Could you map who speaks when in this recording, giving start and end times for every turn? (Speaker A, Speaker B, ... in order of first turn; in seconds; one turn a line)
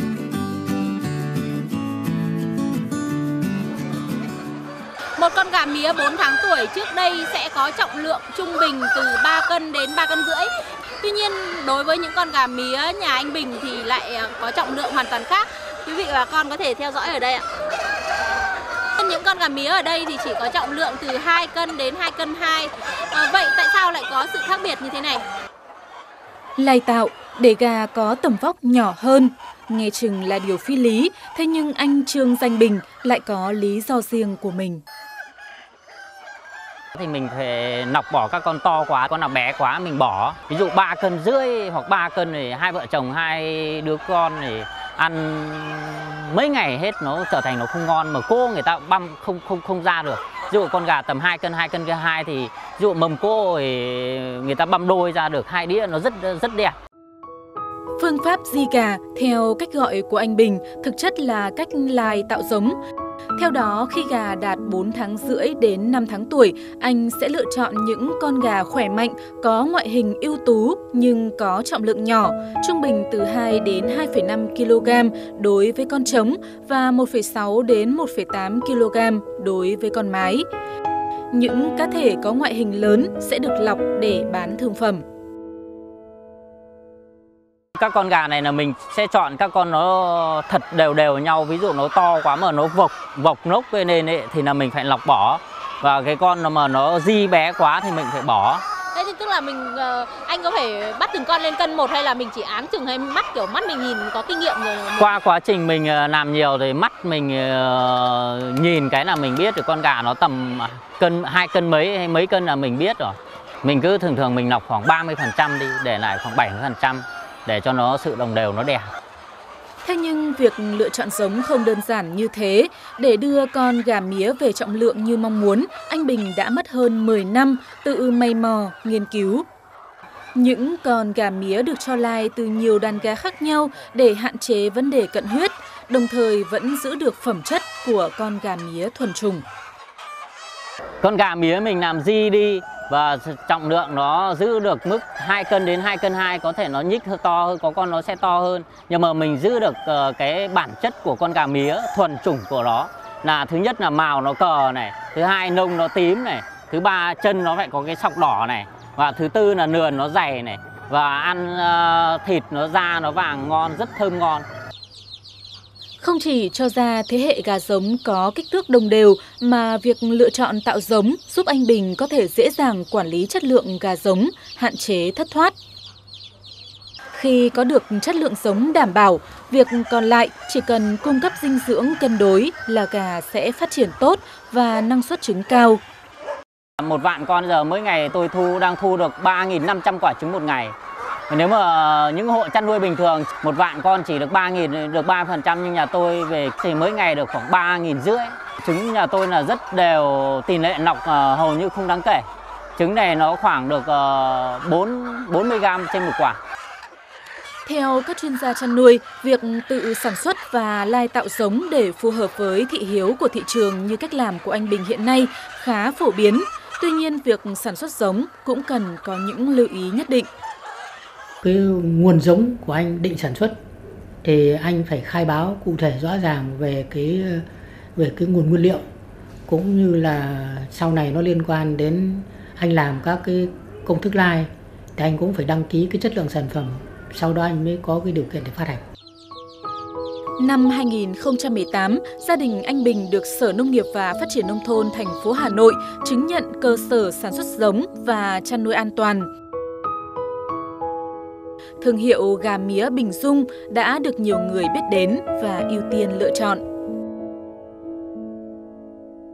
Speaker A: 5.2-17.4
Speaker A: 19.0-25.2
Speaker B: 26.6-34.8
Speaker C: 37.0-56.8
Speaker B: 58.0-62.8
Speaker B: 63.4-80.5
Speaker B: 81.3-85.0
Speaker C: 87.8-98.6
Speaker A: 98.9-105.1
Speaker C: 105.0-118.9
Speaker B: 119.8-129.4
Speaker B: 130.4-139.4
Speaker C: 141.0-164.4
Speaker B: 166.0-175.5
Speaker B: 177.1-185.8
Speaker C: 186.8-190.8
Speaker C: 191.3-202.2
Speaker C: 202.8-206.4
Speaker B: 207.6-220.3
Speaker D: 221.4-223.5
Speaker D: 224.2-227.4
Speaker D: 227.9-228.8
Speaker D: 229.5-238.8
Speaker B: 240.4-249.3
Speaker B: 251.8-256.6